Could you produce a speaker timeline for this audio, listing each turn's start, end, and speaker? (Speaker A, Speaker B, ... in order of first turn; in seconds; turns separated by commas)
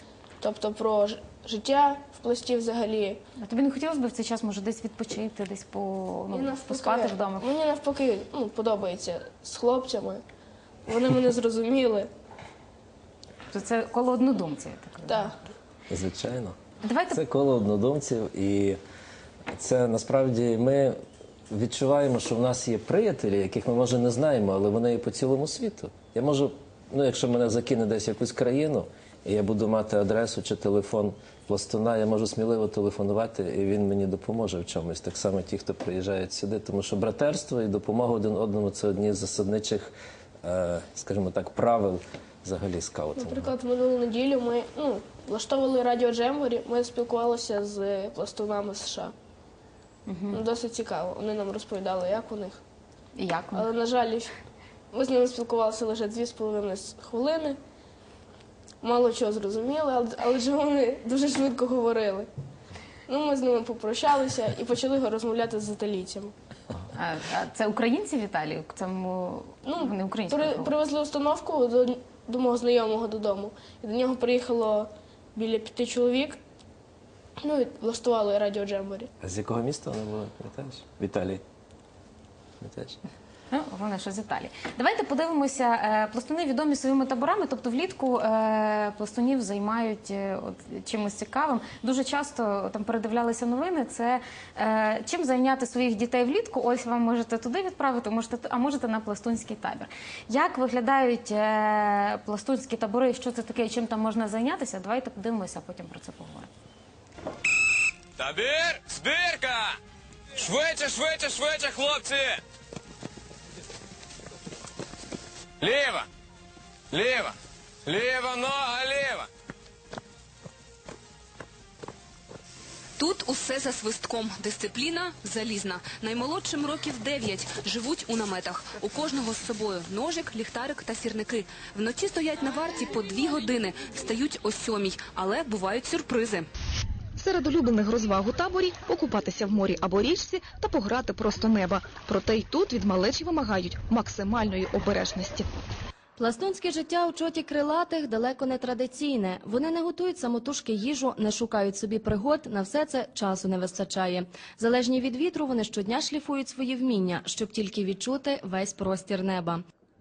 Speaker A: 0.4-3.2, Speaker B: 3.4-7.5, Speaker A: 6.3-10.2, Speaker A: 10.9-12.1, Speaker B: 13.5-15.4, Speaker A: 15.1-15.3, Speaker C: 15.9-16.6, Speaker B: 16.8-17.2, Speaker C: 17.1-18.8, Speaker C: 19.5-20.9, Speaker C: 21.5-43.5, Speaker A: 43.1-49.1, Speaker B: 50.1-50.4, Speaker A: 50.3-52.6, Speaker B: 53.2-53.7, Speaker A: 53.5-54.3, Speaker A: 54.9-57.6, Speaker A: 58.8-62.3, Speaker A: 63.1-66.3, Speaker B: 66.9-70.8, Speaker A: 69.7-76.4, Speaker A: 77.4-79.1, Speaker C: 79.2-81.4, Speaker C: 82.6-83.0, Speaker B: 83.5-106.5, Speaker D: 108.2-109.8, Speaker D: 110.4-112.4, Speaker D: 115.6-116.1, Speaker D: 116.9-117.3, Speaker D: 117.9-119.3, Speaker E: 123.0-136.5, Speaker F: 137.2-145.5, Speaker G: 146.2-159.6